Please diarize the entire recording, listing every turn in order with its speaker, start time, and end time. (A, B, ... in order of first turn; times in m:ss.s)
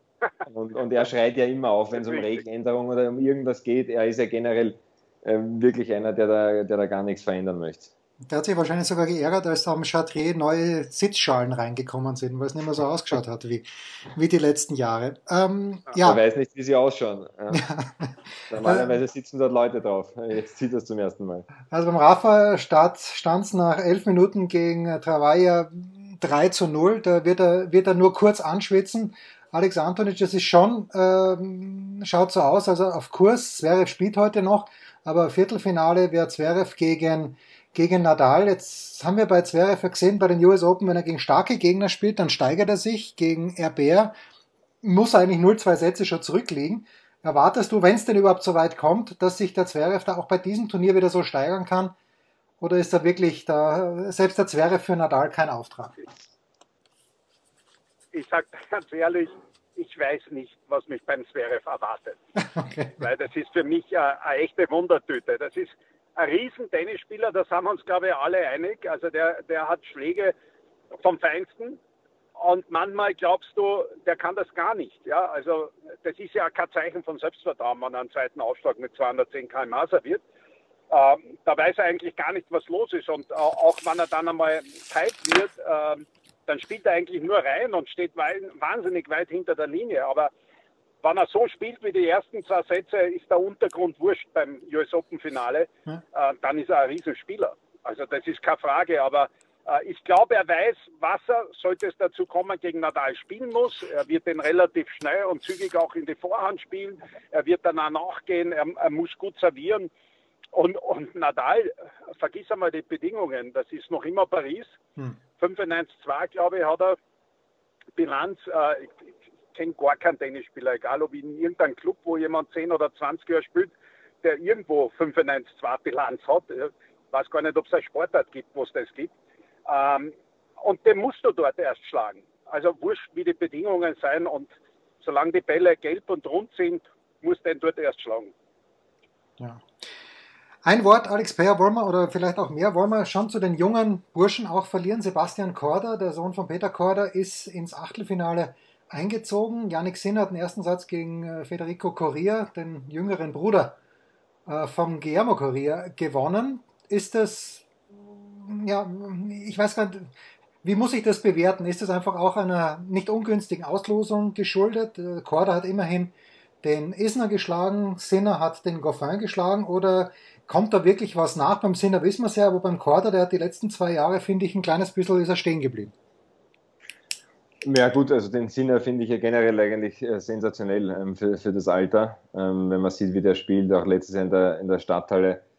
0:00.4-0:07.9 A
0:02.1-0:02.4 B
0:08.3-0:16.2 C
0:16.0-0:17.6 A
0:17.5-0:19.0 C
0:18.5-0:21.5 A
0:21.7-0:44.2 C
0:44.8-0:51.9 C
0:52.6-0:55.9 C
0:58.1-1:02.2 B
1:02.6-1:03.0 C
1:03.0-1:10.3 B
1:11.0-1:11.8 B
1:12.4-1:20.2 B
1:20.9-1:30.3 B
1:31.0-1:49.9 B
1:50.5-1:54.8 B
1:55.4-1:57.0 B
1:58.0-2:09.1 B
2:09.6-2:14.5 B
2:15.0-2:18.3 B
2:19.4-2:19.6 C
2:20.6-2:33.8 C
2:34.4-2:40.1 C
2:40.6-2:55.9 C
2:57.6-3:05.4 A